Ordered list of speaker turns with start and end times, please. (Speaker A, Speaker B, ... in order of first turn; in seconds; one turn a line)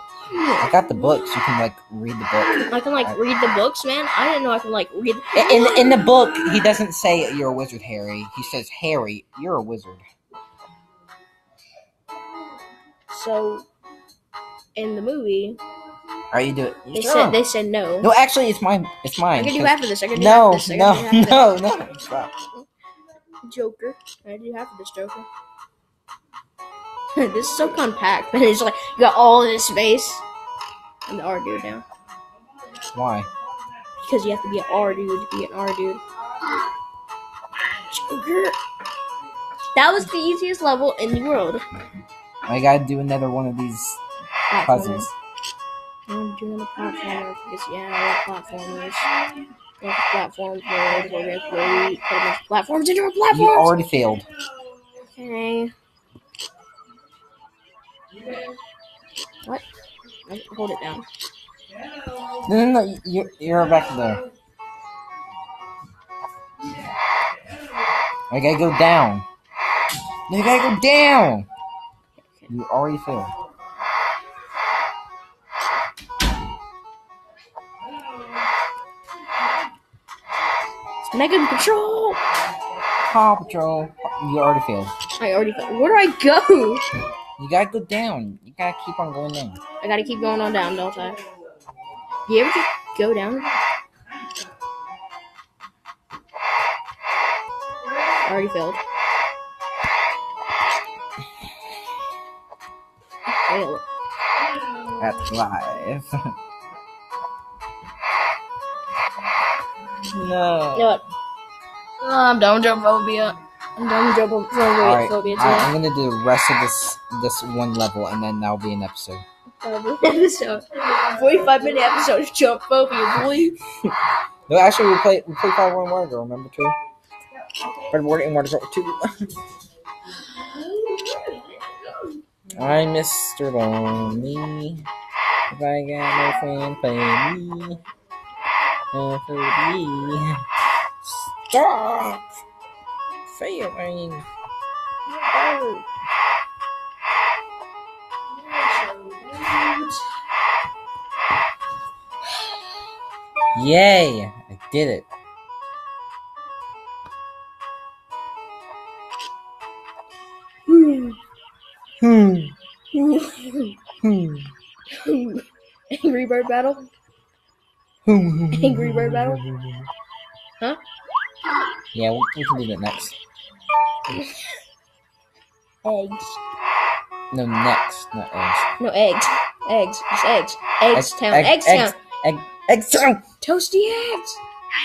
Speaker A: 0.3-1.4
Speaker B: 0.6-3.2
Speaker A: 2.6-6.7
Speaker B: 5.3-10.1
Speaker A: 13.1-13.7
Speaker A: 14.8-15.6
Speaker B: 16.3-17.4
Speaker A: 16.9-18.1
Speaker B: 18.0-22.4
Speaker A: 19.4-21.7
Speaker A: 23.4-25.3
Speaker A: 27.2-30.2
Speaker A: 31.1-31.9
Speaker B: 32.9-33.3
Speaker A: 34.0-36.0
Speaker A: 37.9-38.6
Speaker A: 39.8-41.6
Speaker B: 42.5-44.0
Speaker A: 44.5-45.1
Speaker B: 44.6-45.1
Speaker A: 46.1-49.1
Speaker A: 49.8-53.8
Speaker B: 53.3-54.3
Speaker A: 55.0-55.7
Speaker A: 60.3-61.1
Speaker B: 62.4-64.2
Speaker B: 68.3-69.3
Speaker B: 70.3-71.5
Speaker B: 72.5-73.3
Speaker A: 81.1-82.2
Speaker B: 83.0-84.9
Speaker A: 85.2-86.8
Speaker B: 87.4-89.6
Speaker A: 89.8-91.2
Speaker A: 92.3-93.5
Speaker A: 98.2-98.8
Speaker A: 103.3-103.8
Speaker B: 105.0-106.2
Speaker B: 110.1-111.0
Speaker A: 110.8-111.0
Speaker A: 112.0-115.7
Speaker B: 114.8-119.2
Speaker A: 119.6-123.6
Speaker B: 124.5-126.8
Speaker B: 127.9-129.3
Speaker A: 130.2-132.0
Speaker B: 132.5-134.9
Speaker B: 135.5-137.8
Speaker B: 138.9-140.4
Speaker B: 141.0-142.3
Speaker B: 143.3-144.3
Speaker A: 145.1-145.8
Speaker A: 148.4-150.0
Speaker B: 153.6-155.1
Speaker A: 160.7-161.2
Speaker B: 162.0-162.5
Speaker A: 162.9-163.8
Speaker B: 164.0-164.5
Speaker A: 164.9-166.9
Speaker B: 168.1-169.9
Speaker A: 168.5-169.4
Speaker B: 171.9-173.2
Speaker A: 174.1-174.5
Speaker A: 175.8-176.4
Speaker B: 177.3-178.7
Speaker A: 178.8-181.9
Speaker B: 180.9-183.2
Speaker A: 183.4-184.4